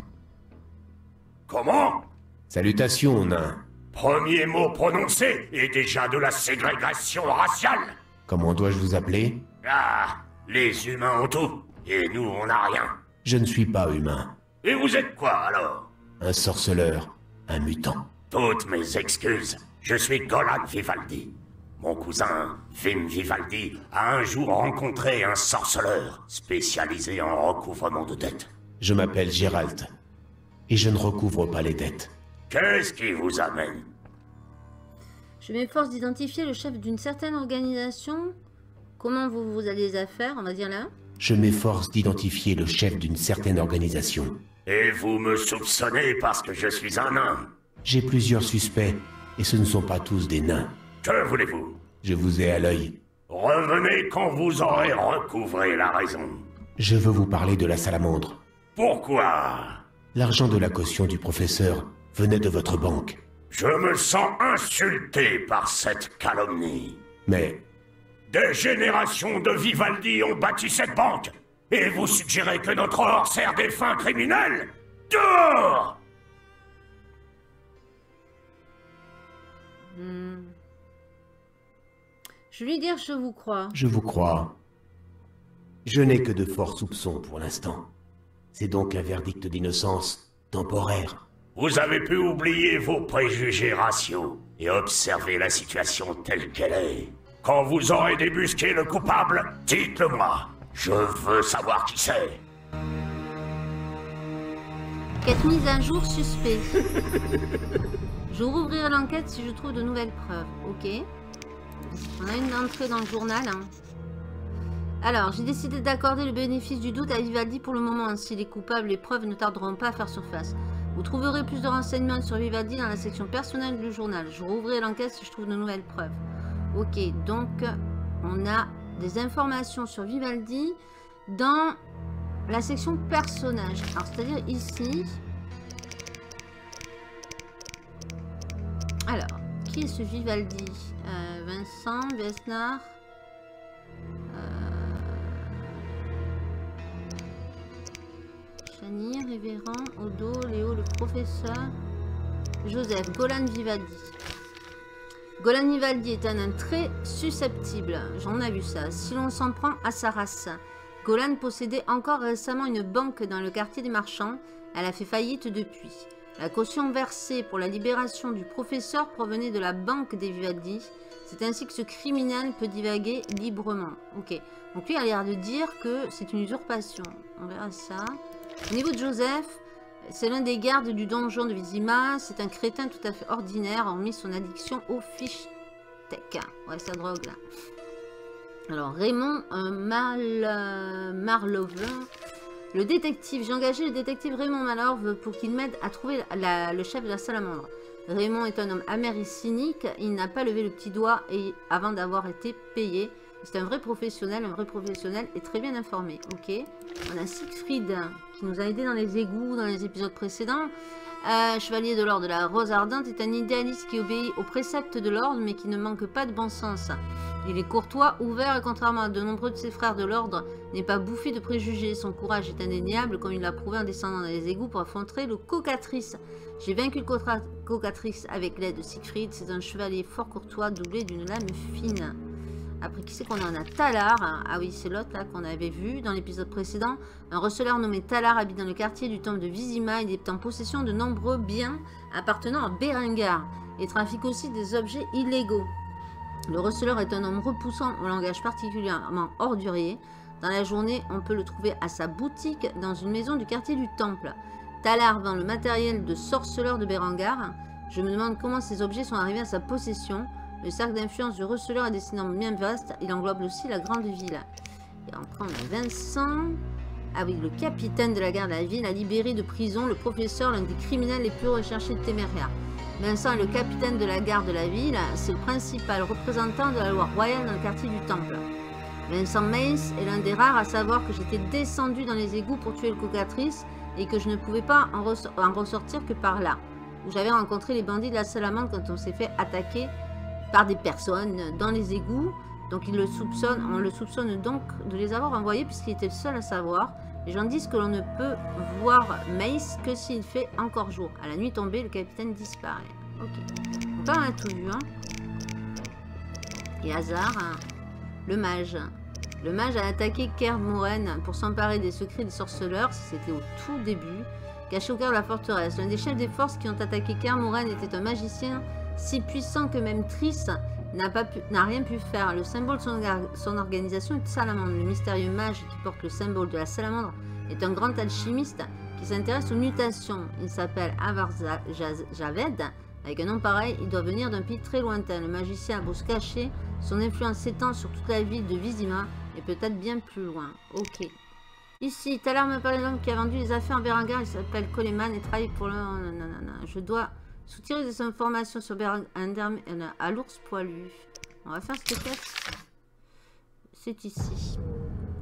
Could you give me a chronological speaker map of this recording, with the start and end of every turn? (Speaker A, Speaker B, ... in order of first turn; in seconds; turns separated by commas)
Speaker A: 1.5-2.0, Speaker B: 2.5-3.6, Speaker A: 3.9-8.0, Speaker B: 8.3-9.4, Speaker A: 9.6-12.9, Speaker B: 13.2-14.3, Speaker A: 14.6-15.9, Speaker B: 16.2-18.1, Speaker A: 18.3-28.5, Speaker B: 28.8-29.9, Speaker B: 30.7-32.1, Speaker A: 32.5-33.9, Speaker C: 35.4-38.3, Speaker C: 39.0-40.9, Speaker B: 41.2-44.4, Speaker A: 44.6-47.5, Speaker B: 47.8-50.7, Speaker A: 51.0-51.8, Speaker B: 52.0-53.0, Speaker A: 53.3-56.5, Speaker B: 56.8-58.4, Speaker A: 58.8-59.8, Speaker B: 60.1-63.2, Speaker A: 63.5-67.0, Speaker B: 67.2-67.6, Speaker A: 68.3-75.9, Speaker C: 79.8-80.5, Speaker C: 82.5-83.8, Speaker B: 83.7-84.5, Speaker B: 85.8-87.9, Speaker B: 88.5-91.2, Speaker A: 91.5-102.4, Speaker C: 105.2-106.7, Speaker C: 108.3-111.1, Speaker C: 112.2-113.7, Speaker C: 115.0-126.2, Speaker C: 126.7-131.8, Speaker C: 132.5-135.2, Speaker C: 139.1-143.0, Speaker C: 144.3-145.6, Speaker C: 148.6-151.7, Speaker C: 152.6-154.1, Speaker C: 155.4-185.5, Speaker C: 186.1-187.4, Speaker C: 188.7-192.1, Speaker C: 192.7-232.2, Speaker C: 232.8-245.7, Speaker C: 246.5-264.5, Speaker C: 265.1-266.6, Speaker C: 267.1-278.4, Speaker C: 279.1-289.9, Speaker C: 290.5-303.4, Speaker C: 303.9-304.9, Speaker C: 306.8-307.6, Speaker C: 308.2-341.1, Speaker C: 341.8-352.4, Speaker C: 353.7-354.6